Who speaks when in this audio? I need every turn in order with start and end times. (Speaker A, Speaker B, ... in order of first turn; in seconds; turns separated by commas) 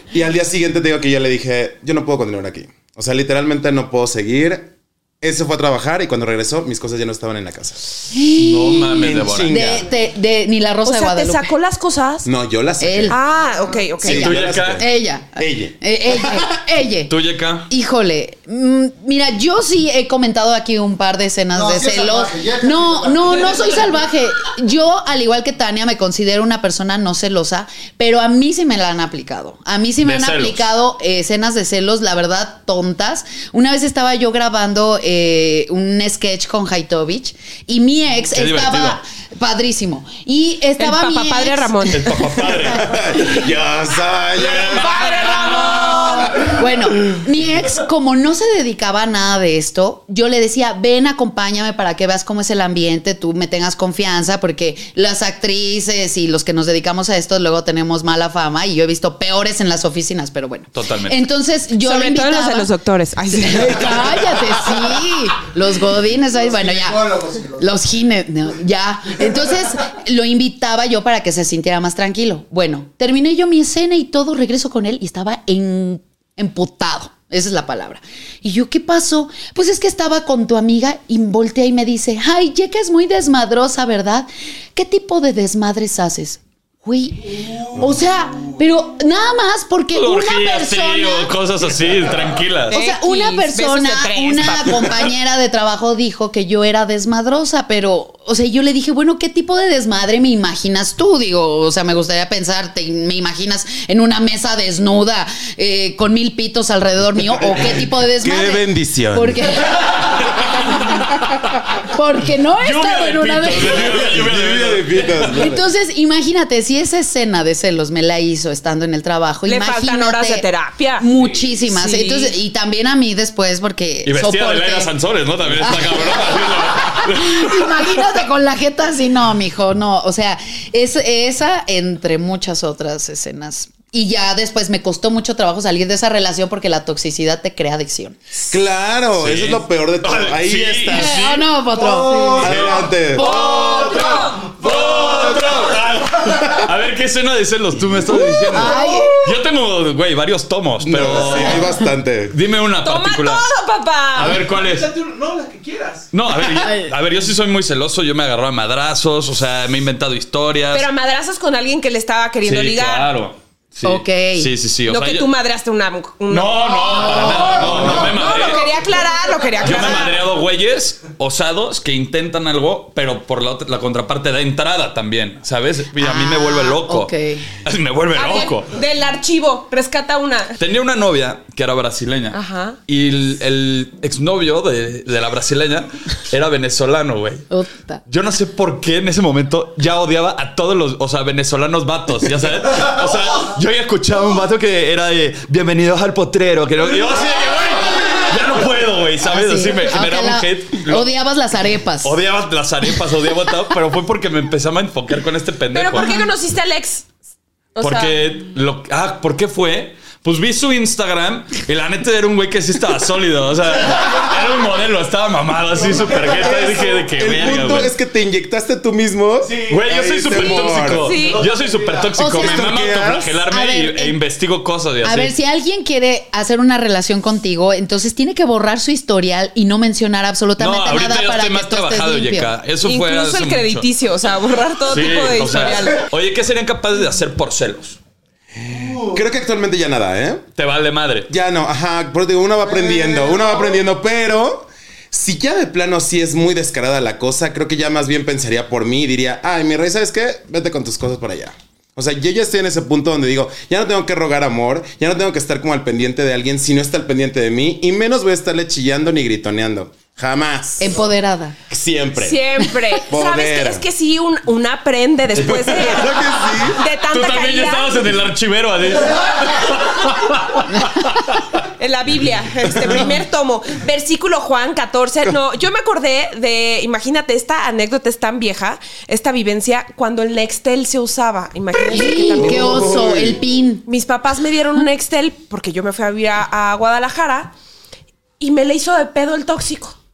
Speaker A: 0.1-7.9, Speaker B: 8.1-11.6, Speaker C: 8.4-9.8, Speaker A: 9.0-9.9, Speaker D: 10.8-12.3, Speaker A: 12.2-13.2, Speaker B: 12.8-13.2, Speaker D: 13.1-14.3, Speaker A: 14.0-16.4, Speaker C: 14.0-14.8, Speaker B: 14.8-17.1, Speaker C: 17.1-17.7, Speaker B: 17.7-41.9, Speaker E: 21.5-23.9, Speaker C: 30.0-30.6, Speaker C: 38.3-39.0, Speaker D: 40.8-42.4, Speaker C: 41.9-43.0, Speaker A: 42.8-46.5, Speaker D: 44.4-46.3, Speaker B: 46.2-62.7, Speaker C: 60.7-61.2, Speaker D: 61.8-64.0, Speaker B: 63.3-67.0, Speaker E: 66.4-67.6, Speaker B: 67.6-91.3, Speaker C: 89.9-92.8, Speaker D: 92.7-94.9, Speaker B: 92.7-109.8, Speaker A: 108.2-109.6, Speaker B: 111.7-113.9, Speaker C: 112.6-115.3, Speaker A: 113.6-115.6, Speaker B: 115.3-120.5, Speaker D: 119.5-121.1, Speaker B: 121.0-124.9, Speaker D: 121.6-122.3, Speaker C: 124.0-127.9, Speaker B: 125.5-138.2, Speaker A: 138.5-141.2, Speaker C: 139.2-141.5, Speaker B: 140.9-142.6, Speaker E: 141.7-142.6, Speaker A: 142.4-145.7, Speaker C: 142.4-142.9, Speaker D: 143.1-144.5, Speaker B: 143.1-143.6, Speaker C: 144.4-151.6, Speaker A: 146.2-146.6, Speaker B: 148.4-149.3, Speaker A: 150.8-152.3, Speaker C: 152.3-153.4, Speaker D: 152.8-154.4, Speaker C: 154.1-154.9, Speaker F: 154.4-156.1, Speaker C: 156.1-160.8, Speaker B: 156.6-156.9, Speaker D: 160.7-163.1, Speaker C: 162.4-165.3, Speaker B: 163.8-164.5, Speaker D: 164.8-170.2, Speaker C: 166.3-168.7, Speaker C: 169.6-177.1, Speaker B: 175.9-177.4, Speaker C: 177.6-178.7, Speaker D: 178.1-180.6, Speaker C: 180.6-187.5, Speaker D: 182.3-182.8, Speaker B: 187.5-188.0, Speaker C: 188.1-201.1, Speaker B: 199.2-202.2, Speaker C: 202.0-206.2, Speaker D: 205.7-207.1, Speaker D: 207.7-208.2, Speaker C: 207.8-217.9, Speaker A: 216.3-221.1, Speaker F: 219.4-219.8, Speaker C: 219.7-225.3, Speaker D: 220.3-221.5, Speaker F: 221.2-222.1, Speaker B: 222.2-222.8, Speaker A: 222.3-223.3, Speaker B: 223.4-224.2, Speaker B: 225.0-232.5, Speaker C: 230.6-233.9, Speaker D: 232.8-236.0, Speaker C: 234.9-238.0, Speaker A: 238.6-240.4, Speaker E: 238.7-239.2, Speaker C: 240.6-241.3, Speaker A: 241.3-261.0, Speaker E: 242.7-243.8, Speaker B: 260.8-261.6, Speaker A: 261.7-263.8, Speaker D: 262.2-268.0, Speaker A: 265.4-266.8, Speaker C: 267.1-271.4, Speaker D: 271.8-282.9, Speaker B: 281.9-283.9, Speaker A: 282.2-283.4, Speaker D: 283.9-287.5, Speaker D: 288.4-290.0